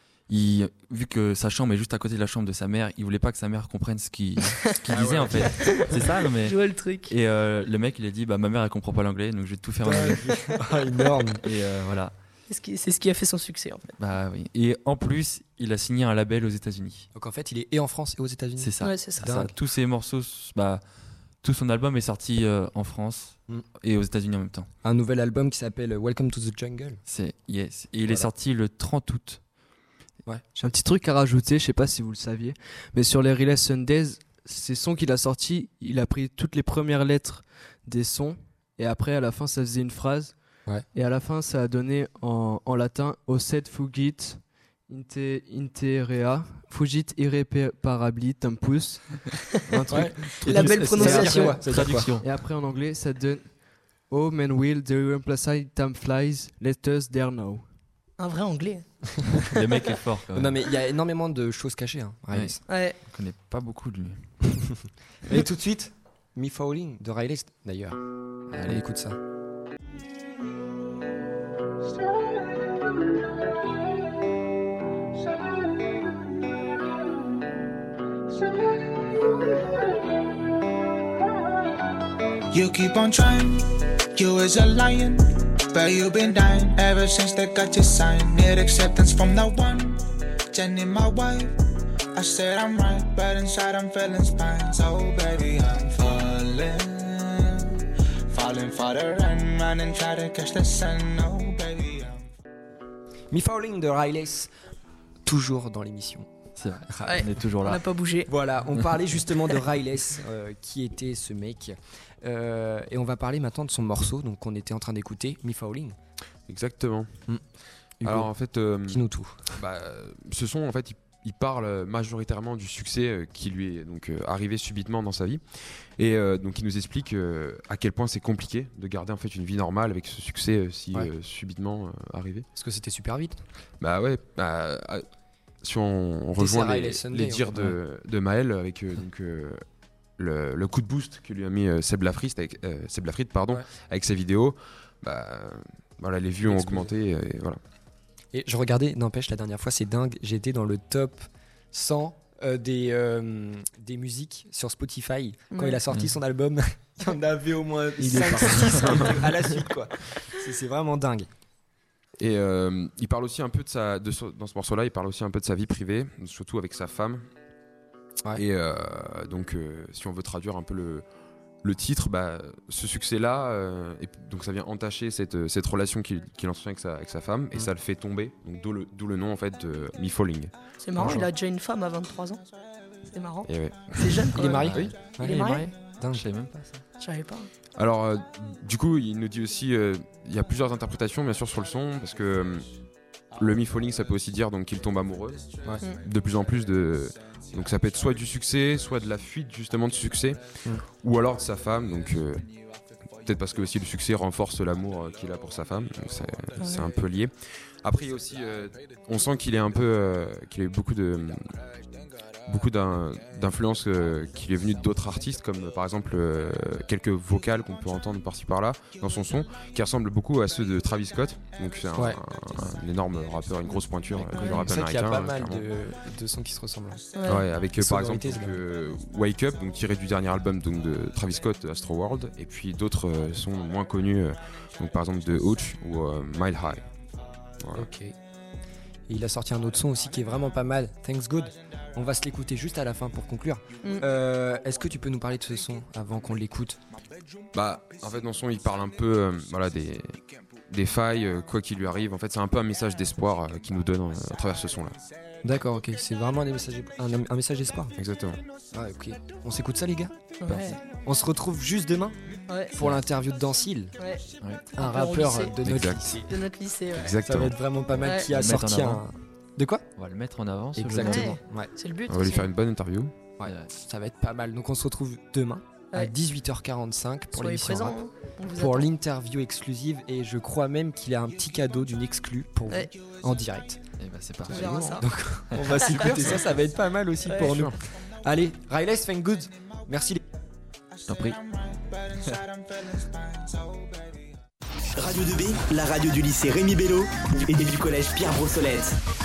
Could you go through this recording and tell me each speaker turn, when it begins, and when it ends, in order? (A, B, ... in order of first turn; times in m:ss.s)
0:00.3-0:10.3 A
0:04.9-0:06.0 B
0:05.4-0:05.8 C
0:06.4-0:07.1 C
0:09.8-0:11.4 B
0:11.4-0:12.1 A
0:12.5-0:13.9 C
0:14.0-0:17.1 A
0:17.1-0:19.5 B
0:18.6-0:20.8 A
0:18.8-0:19.3 C
0:21.4-0:24.7 A
0:24.8-0:27.0 B
0:27.1-0:29.4 A
0:30.6-0:40.4 D
0:40.9-0:57.7 D
0:49.9-0:52.2 B
0:50.4-0:51.6 C
0:51.6-0:52.3 A
0:58.2-0:58.8 C
0:59.5-1:00.6 A
1:00.3-1:02.6 B
1:02.3-1:04.6 A
1:02.7-1:03.0 C
1:05.3-1:08.0 B
1:08.5-1:09.2 B
1:08.5-1:08.8 A
1:22.5-1:31.6 E
1:32.1-1:42.2 E
1:43.3-1:44.5 B
1:45.2-1:46.3 B
1:46.6-1:47.8 A
1:46.9-1:47.3 B
1:47.0-1:48.3 C
1:48.3-1:56.0 B
1:56.5-1:57.1 F
1:58.0-1:58.3 B
1:58.0-1:59.0 F
1:58.9-1:59.6 B
1:59.6-2:12.4 F
2:12.5-2:13.4 B
2:13.8-2:15.0 F
2:15.6-2:19.6 F
2:16.4-2:17.8 B
2:20.2-2:27.6 F
2:26.4-2:26.9 B
2:28.3-2:41.3 B
2:35.5-2:35.8 C
2:38.0-2:39.6 D
2:42.2-2:47.2 F
2:48.3-2:51.0 F
2:51.6-3:01.2 F
3:00.8-3:02.4 C
3:03.1-3:05.7 C
3:03.4-3:04.3 F
3:04.3-3:06.2 B
3:04.6-3:06.8 A
3:07.0-3:07.5 C
3:07.8-3:12.7 F
3:13.4-3:22.5 F
3:23.2-3:31.5 F
3:26.6-3:26.9 C
3:32.4-3:45.7 F
3:41.9-3:42.2 B
3:44.3-3:44.6 A
3:44.3-3:44.7 C
3:44.4-3:47.0 B
3:47.2-3:47.5 C
3:47.3-3:56.8 F
3:47.7-3:48.6 B
3:57.6-3:57.9 F
3:57.7-3:58.1 B
3:59.1-4:06.8 B
4:07.5-4:15.0 F
4:15.4-4:17.9 B
4:18.0-4:18.4 F
4:18.7-4:20.1 B
4:20.4-4:20.8 C
4:20.4-4:20.8 A
4:21.0-4:22.2 B
4:22.5-4:22.8 C
4:22.7-4:23.9 B
4:22.8-4:23.0 A
4:24.0-4:24.2 C
4:24.7-4:26.3 B
4:24.8-4:25.6 C
4:25.6-4:26.2 F
4:26.2-4:27.1 C
4:26.9-4:27.5 F
4:27.2-4:29.8 B
4:28.0-4:28.3 C
4:28.2-4:29.0 A
4:30.0-4:31.4 A
4:30.8-4:31.7 B
4:31.0-4:32.5 C
4:32.1-4:33.2 F
4:33.4-4:38.0 B
4:37.3-4:38.9 C
4:38.5-4:43.8 B
4:44.0-4:46.4 A
4:44.5-4:45.1 C
4:44.5-4:50.2 B
4:45.7-4:46.3 C
4:47.3-4:47.7 C
4:51.1-4:51.4 A
4:51.2-4:54.2 E
4:55.0-4:59.0 G